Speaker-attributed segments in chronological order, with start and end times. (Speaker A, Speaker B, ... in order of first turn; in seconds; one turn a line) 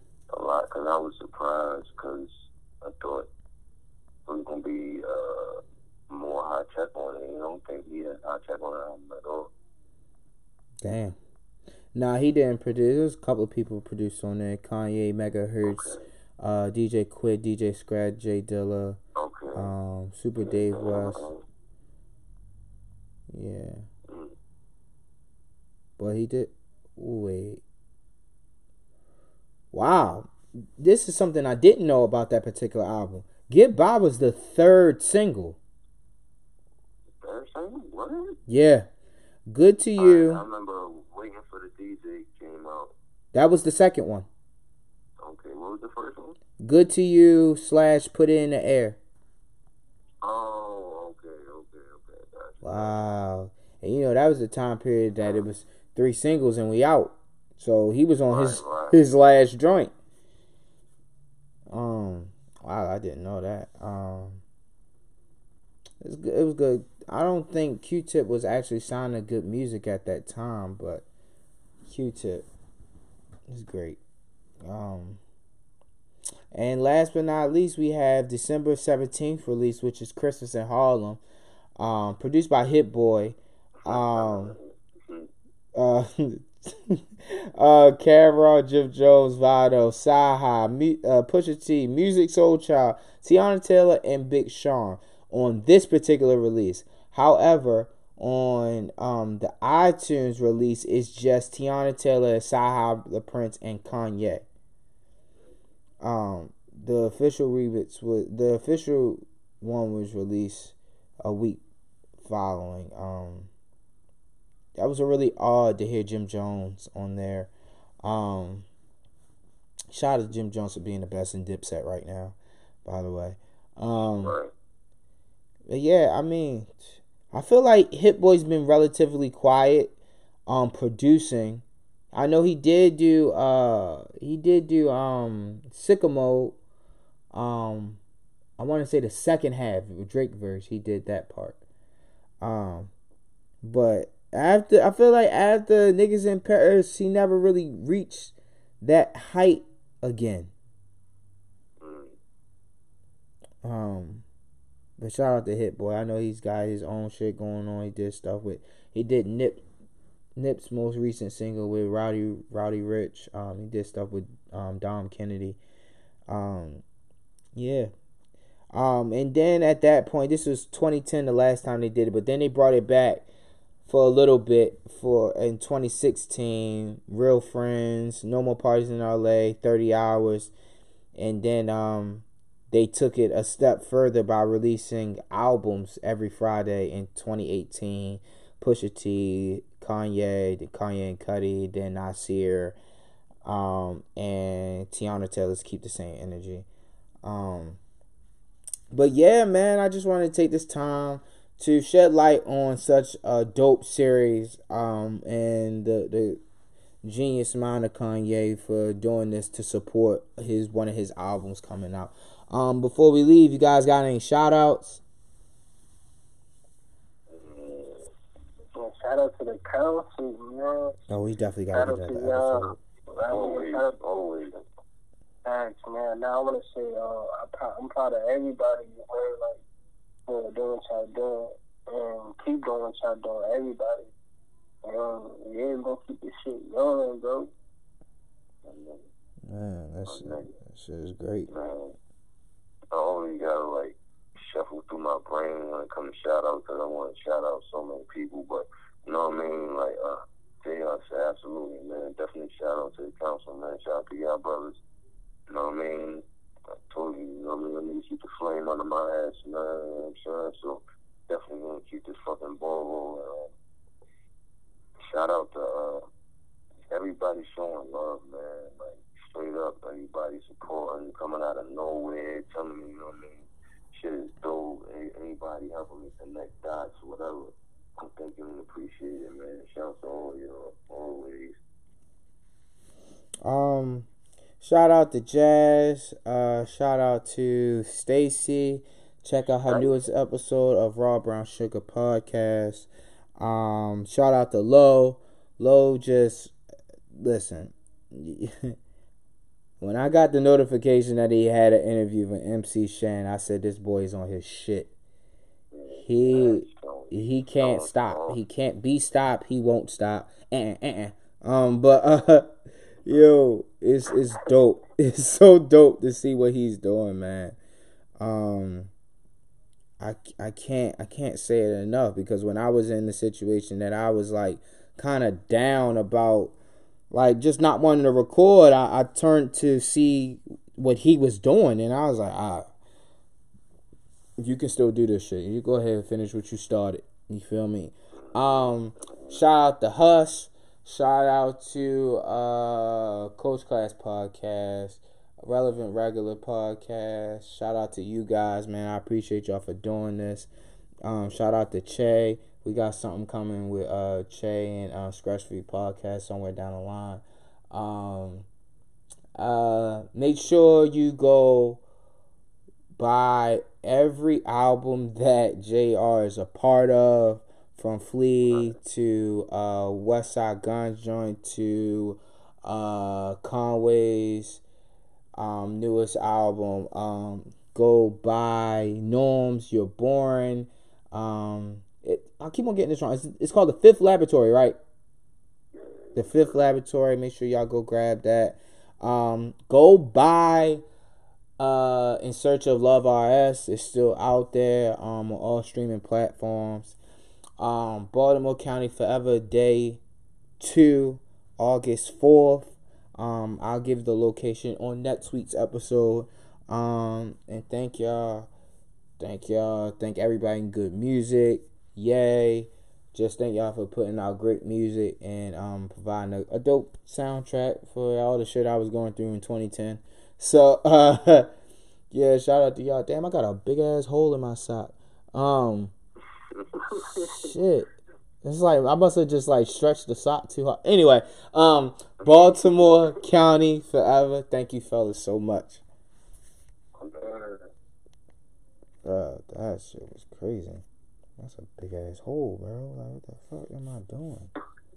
Speaker A: 0.3-3.3
Speaker A: 4.3-9.5
Speaker B: 10.8-11.2
Speaker B: 11.9-19.0
Speaker A: 15.6-16.1
Speaker A: 19.2-19.7
Speaker B: 19.5-21.3
Speaker A: 20.4-21.4
Speaker B: 23.3-23.9
Speaker A: 24.1-24.3
Speaker B: 26.0-27.6
Speaker B: 29.7-35.6
Speaker A: 37.2-38.4
Speaker B: 38.5-38.9
Speaker B: 39.5-40.4
Speaker A: 40.0-42.9
Speaker B: 43.3-44.3
Speaker A: 45.2-46.4
Speaker B: 46.6-49.0
Speaker A: 50.2-53.0
Speaker B: 52.6-59.9
Speaker A: 58.3-59.0
Speaker B: 61.7-64.4
Speaker B: 66.0-71.0
Speaker B: 71.9-72.5
Speaker B: 73.5-74.0
Speaker B: 74.6-75.2
Speaker B: 76.5-81.2
Speaker B: 81.8-84.6
Speaker A: 83.8-85.3
Speaker B: 85.8-104.5
Speaker B: 106.0-111.6
Speaker B: 112.2-113.5
Speaker B: 114.8-117.5
Speaker B: 118.0-118.7
Speaker B: 119.9-124.4
Speaker A: 124.2-124.5
Speaker B: 125.7-129.9
Speaker B: 130.5-136.6
Speaker B: 137.3-138.0
Speaker B: 138.6-141.6
Speaker B: 142.4-142.9
Speaker B: 143.6-150.5
Speaker A: 151.8-152.2
Speaker B: 153.6-154.2
Speaker B: 155.0-159.6
Speaker B: 160.4-165.6
Speaker B: 166.3-166.8
Speaker B: 167.6-167.9
Speaker B: 168.7-173.2
Speaker B: 173.9-180.5
Speaker B: 181.2-192.8
Speaker B: 193.4-196.7
Speaker B: 197.2-197.8
Speaker B: 198.9-206.4
Speaker B: 207.0-215.0
Speaker A: 217.3-218.1
Speaker C: 218.8-220.9
Speaker B: 221.1-222.8
Speaker C: 221.7-223.9
Speaker A: 223.3-224.6
Speaker C: 225.4-229.6
Speaker C: 230.3-234.1
Speaker C: 234.8-237.5
Speaker A: 238.6-239.1
Speaker B: 239.5-241.5
Speaker A: 240.1-240.5
Speaker A: 241.5-242.0
Speaker A: 242.9-254.8
Speaker A: 255.5-256.2
Speaker A: 256.9-263.5
Speaker A: 265.0-266.1
Speaker A: 266.9-281.6
Speaker B: 283.4-284.1
Speaker B: 284.6-296.5
Speaker B: 297.1-298.8
Speaker B: 299.8-304.9
Speaker A: 305.7-308.4
Speaker B: 306.0-312.5
Speaker B: 313.1-317.6
Speaker B: 318.2-318.9
Speaker B: 320.0-326.5
Speaker B: 327.1-332.7
Speaker B: 334.4-350.5
Speaker A: 338.4-339.4
Speaker B: 351.1-358.5
Speaker B: 359.4-361.8
Speaker B: 363.0-374.6
Speaker B: 375.4-384.8
Speaker A: 385.8-386.6
Speaker B: 386.1-390.8
Speaker B: 391.6-397.0
Speaker B: 397.6-400.0
Speaker B: 400.6-408.5
Speaker B: 409.2-421.5
Speaker B: 422.1-425.9
Speaker C: 426.9-427.4
Speaker B: 427.1-427.9
Speaker B: 428.4-435.8
Speaker A: 437.0-437.4
Speaker C: 437.0-437.7
Speaker B: 439.0-440.8
Speaker B: 441.4-444.5